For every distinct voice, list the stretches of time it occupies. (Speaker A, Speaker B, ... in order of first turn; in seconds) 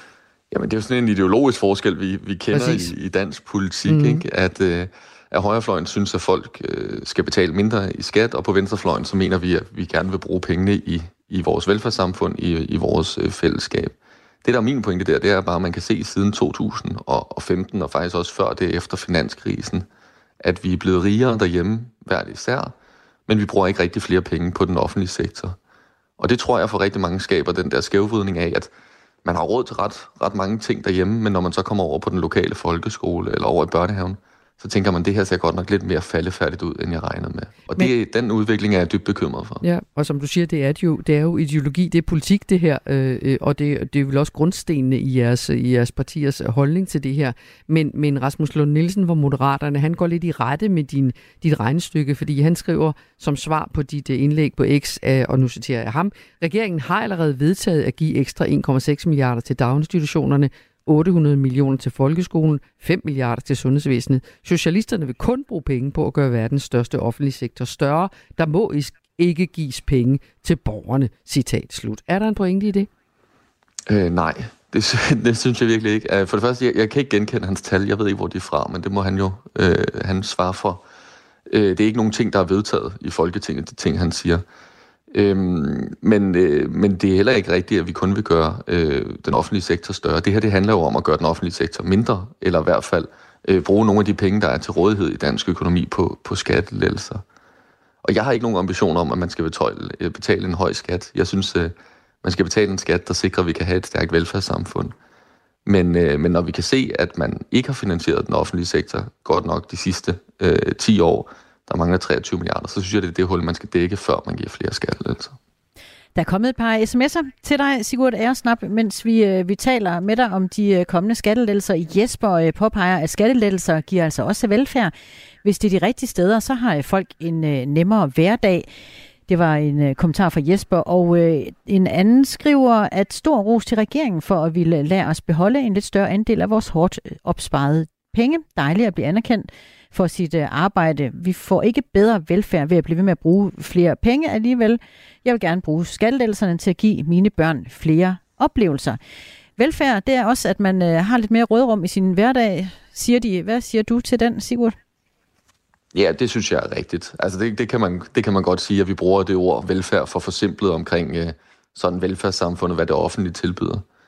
Speaker A: 0.5-19.9, 20.4-22.7, 23.3-25.6, 26.2-28.7, 29.2-39.6, 73.9-80.8, 81.5-84.4, 85.1-97.2, 98.0-105.0, 105.7-115.4, 155.9-163.8
Speaker B: 2.5-2.9, 3.9-4.2, 39.6-72.9
Speaker C: 116.2-124.9, 125.4-128.7, 129.3-149.0, 149.6-154.8